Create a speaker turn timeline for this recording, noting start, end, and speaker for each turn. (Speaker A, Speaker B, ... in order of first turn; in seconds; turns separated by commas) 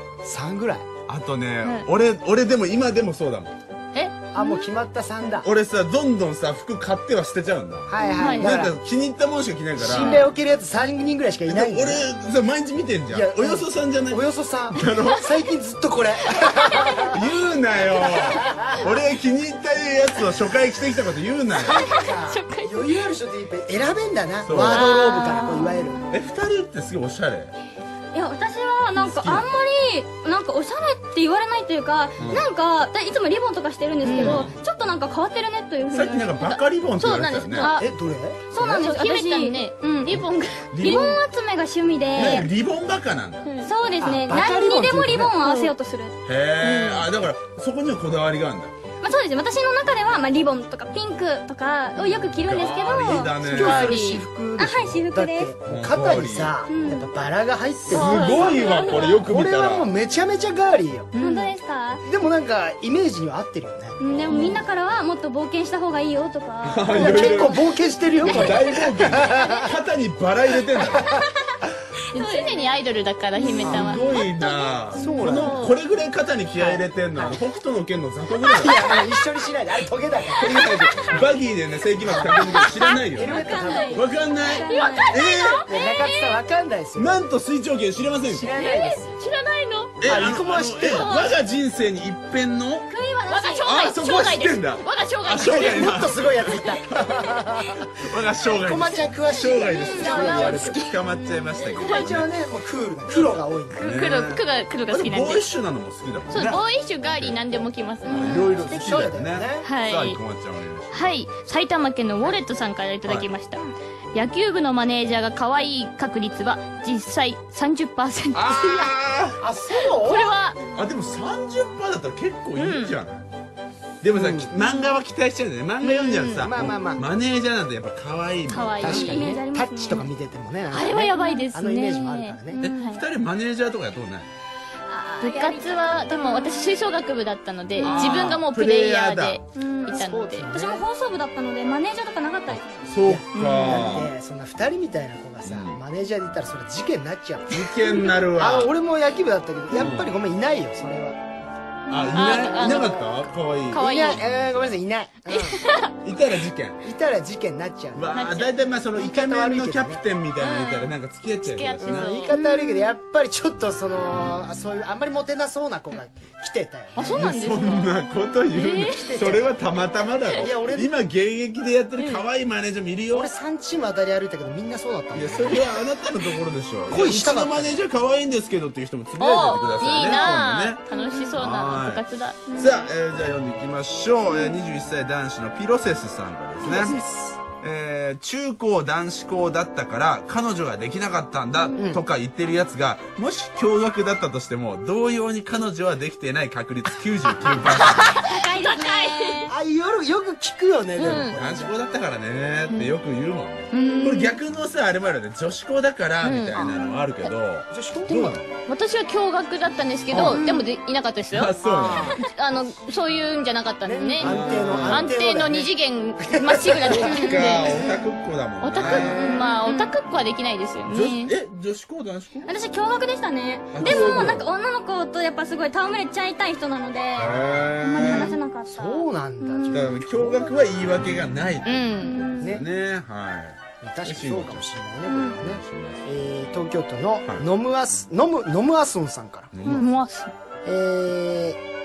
Speaker A: 0.2-0.9, Speaker B: 1.1-3.5, Speaker C: 3.9-4.2, Speaker A: 4.3-5.5, Speaker D: 4.4-4.7, Speaker B: 5.4-10.3, Speaker A: 7.9-8.7, Speaker C: 8.2-8.5, Speaker A: 9.8-12.0, Speaker C: 10.0-10.2, Speaker B: 11.5-14.2, Speaker A: 13.1-17.2, Speaker B: 14.7-15.2, Speaker B: 17.0-21.9, Speaker A: 18.0-18.8, Speaker A: 21.6-26.0, Speaker C: 21.8-22.9, Speaker B: 24.4-24.9, Speaker C: 24.6-25.9, Speaker B: 26.1-27.5, Speaker D: 28.1-36.5, Speaker B: 29.0-29.5, Speaker B: 32.2-32.5, Speaker C: 34.0-34.5, Speaker B: 34.1-34.5, Speaker B: 35.9-37.7, Speaker C: 37.0-37.8, Speaker D: 37.6-37.9, Speaker A: 37.8-38.9, Speaker D: 38.5-40.1, Speaker C: 38.8-41.1, Speaker B: 40.1-41.2, Speaker D: 40.8-42.5, Speaker B: 42.1-43.5, Speaker C: 42.2-42.4, Speaker C: 43.4-43.7, Speaker D: 43.6-46.1, Speaker A: 44.0-45.4, Speaker C: 45.4-45.7, Speaker B: 46.2-48.7, Speaker C: 46.6-47.0, Speaker D: 49.0-53.4, Speaker B: 52.4-54.0, Speaker A: 53.5-61.1, Speaker C: 53.5-54.2, Speaker D: 54.6-55.5, Speaker B: 55.7-56.5, Speaker D: 56.7-57.1, Speaker B: 57.9-59.9, Speaker C: 57.9-59.1, Speaker D: 58.2-59.2, Speaker C: 61.1-61.5, Speaker D: 61.2-62.0, Speaker A: 62.0-64.0, Speaker D: 64.0-67.5, Speaker B: 64.1-64.6, Speaker B: 66.6-67.6, Speaker A: 66.9-69.7, Speaker B: 68.2-71.2, Speaker D: 68.4-69.6, Speaker A: 71.0-71.2, Speaker D: 72.1-72.8, Speaker C: 72.1-74.7, Speaker D: 73.4-73.7, Speaker B: 73.6-78.9, Speaker A: 73.6-74.0, Speaker D: 74.9-75.3, Speaker A: 75.0-75.7, Speaker C: 75.2-75.8, Speaker A: 76.6-77.4, Speaker A: 78.5-80.7, Speaker B: 80.4-85.6, Speaker A: 82.1-84.1, Speaker D: 82.5-85.2, Speaker C: 82.6-82.9, Speaker C: 84.5-86.0, Speaker A: 85.6-87.2, Speaker B: 87.0-88.5, Speaker A: 88.2-89.2, Speaker C: 88.5-90.0, Speaker B: 90.0-92.9, Speaker A: 90.0-91.1, Speaker C: 90.8-91.3, Speaker D: 92.9-93.7, Speaker C: 93.3-96.0, Speaker B: 93.6-102.3, Speaker A: 95.4-97.9, Speaker A: 98.5-100.7, Speaker D: 99.7-100.5, Speaker C: 100.0-101.0, Speaker A: 101.8-103.9, Speaker B: 103.1-111.1, Speaker C: 103.8-105.5, Speaker C: 106.3-108.5, Speaker D: 108.1-108.5, Speaker A: 108.3-109.7, Speaker C: 109.6-110.2, Speaker C: 110.9-118.8, Speaker B: 118.3-119.4, Speaker A: 118.5-120.3, Speaker C: 119.9-120.6, Speaker B: 120.7-123.2, Speaker C: 122.5-123.0, Speaker B: 124.0-129.2, Speaker A: 124.1-124.5, Speaker C: 125.8-126.5, Speaker A: 126.4-127.1, Speaker C: 128.5-129.2, Speaker A: 128.8-132.6, Speaker D: 128.8-130.1, Speaker C: 130.7-133.0, Speaker D: 131.1-131.4, Speaker D: 132.6-132.8, Speaker B: 132.6-134.3, Speaker D: 134.9-136.8, Speaker C: 135.2-140.5, Speaker B: 137.8-139.4, Speaker D: 139.5-142.8, Speaker A: 139.9-140.8, Speaker B: 142.5-144.1, Speaker A: 143.0-151.2, Speaker C: 143.3-144.0, Speaker B: 145.4-145.8, Speaker B: 147.5-148.7, Speaker B: 149.7-150.1, Speaker B: 151.9-154.8, Speaker C: 151.9-153.1, Speaker A: 152.4-153.1, Speaker C: 153.7-154.2, Speaker A: 153.7-155.6, Speaker C: 155.4-155.9, Speaker B: 156.0-156.8, Speaker A: 156.8-158.2, Speaker B: 157.9-162.2, Speaker C: 158.1-158.5, Speaker A: 158.9-160.0, Speaker C: 160.4-162.8, Speaker A: 161.8-167.3, Speaker C: 166.9-167.9, Speaker B: 167.1-173.3, Speaker C: 168.5-169.1, Speaker A: 168.9-169.5, Speaker A: 170.3-170.9, Speaker C: 172.0-172.2, Speaker A: 173.1-175.6, Speaker B: 175.1-180.8, Speaker A: 176.9-177.8, Speaker C: 179.2-182.7, Speaker D: 180.9-181.3, Speaker B: 181.3-198.1, Speaker D: 182.5-182.8, Speaker A: 191.8-192.0, Speaker C: 197.8-199.5, Speaker D: 197.9-199.5, Speaker A: 199.5-201.7, Speaker C: 201.0-201.3, Speaker B: 201.0-208.4, Speaker C: 203.7-204.4, Speaker C: 206.2-206.8, Speaker A: 207.7-208.4, Speaker C: 208.7-211.6, Speaker B: 210.1-210.4, Speaker A: 210.1-210.4, Speaker B: 211.3-212.2, Speaker A: 211.6-212.2, Speaker C: 212.2-217.8, Speaker A: 213.8-217.8, Speaker B: 214.2-215.1, Speaker B: 216.9-219.2, Speaker C: 218.6-221.3, Speaker A: 218.8-219.4, Speaker D: 219.2-219.9, Speaker B: 220.9-222.5, Speaker D: 222.5-229.9, Speaker B: 223.7-224.4, Speaker A: 223.8-224.3, Speaker B: 227.2-228.3, Speaker A: 227.2-230.6, Speaker B: 229.7-234.7, Speaker C: 231.6-232.2, Speaker D: 232.1-232.5, Speaker A: 232.4-232.7, Speaker A: 233.8-239.5, Speaker D: 235.1-235.4, Speaker B: 235.2-236.1, Speaker B: 239.5-239.9, Speaker C: 239.7-240.3, Speaker A: 240.6-241.6